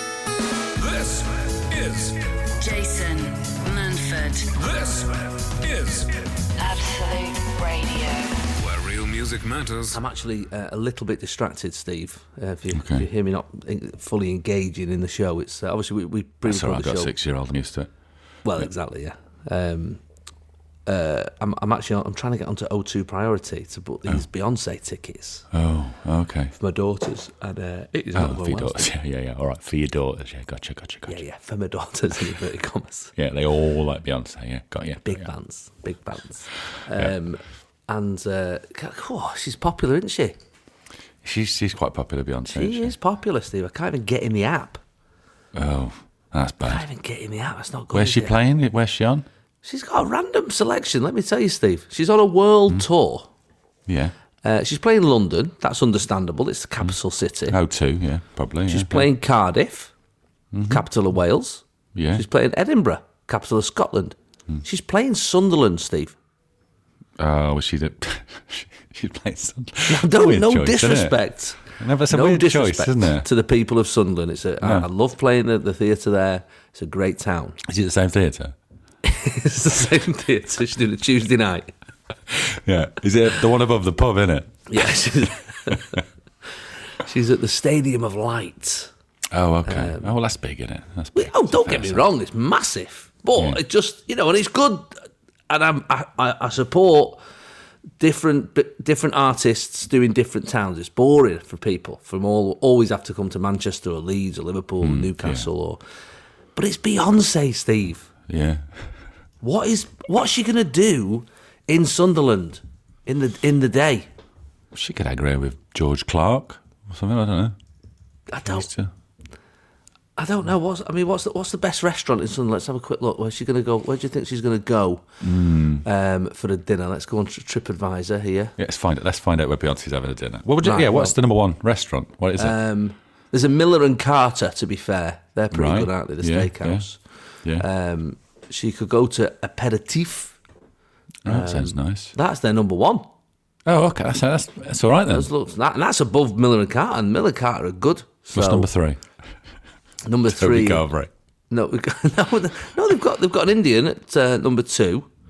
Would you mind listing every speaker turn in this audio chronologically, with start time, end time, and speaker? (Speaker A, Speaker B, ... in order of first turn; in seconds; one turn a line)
Speaker A: 0.8-2.4
Speaker B: 2.6-4.5
Speaker A: 4.5-6.5
Speaker B: 6.6-8.4
Speaker A: 8.4-10.0
Speaker C: 9.9-17.1
Speaker D: 12.7-13.1
Speaker D: 16.4-17.9
Speaker C: 18.4-20.0
Speaker C: 20.9-25.5
Speaker D: 25.5-26.5
Speaker C: 26.6-28.9
Speaker D: 28.1-31.2
Speaker C: 31.1-33.1
Speaker D: 33.2-35.3
Speaker C: 35.0-40.4
Speaker D: 41.2-42.9
Speaker C: 42.5-44.8
Speaker D: 45.5-46.8
Speaker C: 46.6-48.4
Speaker D: 47.9-49.3
Speaker C: 49.6-53.3
Speaker D: 53.9-54.1
Speaker C: 54.4-57.6
Speaker D: 57.5-59.1
Speaker C: 58.7-59.9
Speaker D: 60.5-60.9
Speaker C: 60.7-66.2
Speaker D: 62.0-62.2
Speaker D: 67.2-73.3
Speaker C: 69.9-77.6
Speaker D: 74.6-74.9
Speaker D: 77.6-78.5
Speaker C: 79.0-81.7
Speaker D: 82.3-84.9
Speaker C: 84.7-86.0
Speaker D: 85.7-86.0
Speaker C: 87.0-88.9
Speaker D: 89.3-92.1
Speaker C: 89.7-90.1
Speaker C: 91.2-95.0
Speaker D: 93.3-93.6
Speaker C: 95.5-97.2
Speaker C: 98.0-105.8
Speaker D: 104.8-105.5
Speaker C: 106.6-108.1
Speaker D: 108.3-109.0
Speaker C: 109.4-114.1
Speaker D: 114.7-117.5
Speaker C: 118.3-118.7
Speaker D: 118.5-118.9
Speaker C: 120.2-125.1
Speaker D: 125.2-125.8
Speaker C: 125.8-128.6
Speaker D: 128.6-132.6
Speaker C: 130.6-131.2
Speaker C: 132.4-137.0
Speaker D: 135.5-136.8
Speaker C: 137.6-140.4
Speaker D: 141.2-142.1
Speaker C: 141.2-143.1
Speaker D: 143.7-145.3
Speaker C: 145.1-148.7
Speaker D: 148.3-149.0
Speaker C: 150.1-150.9
Speaker D: 150.3-151.1
Speaker C: 151.5-155.1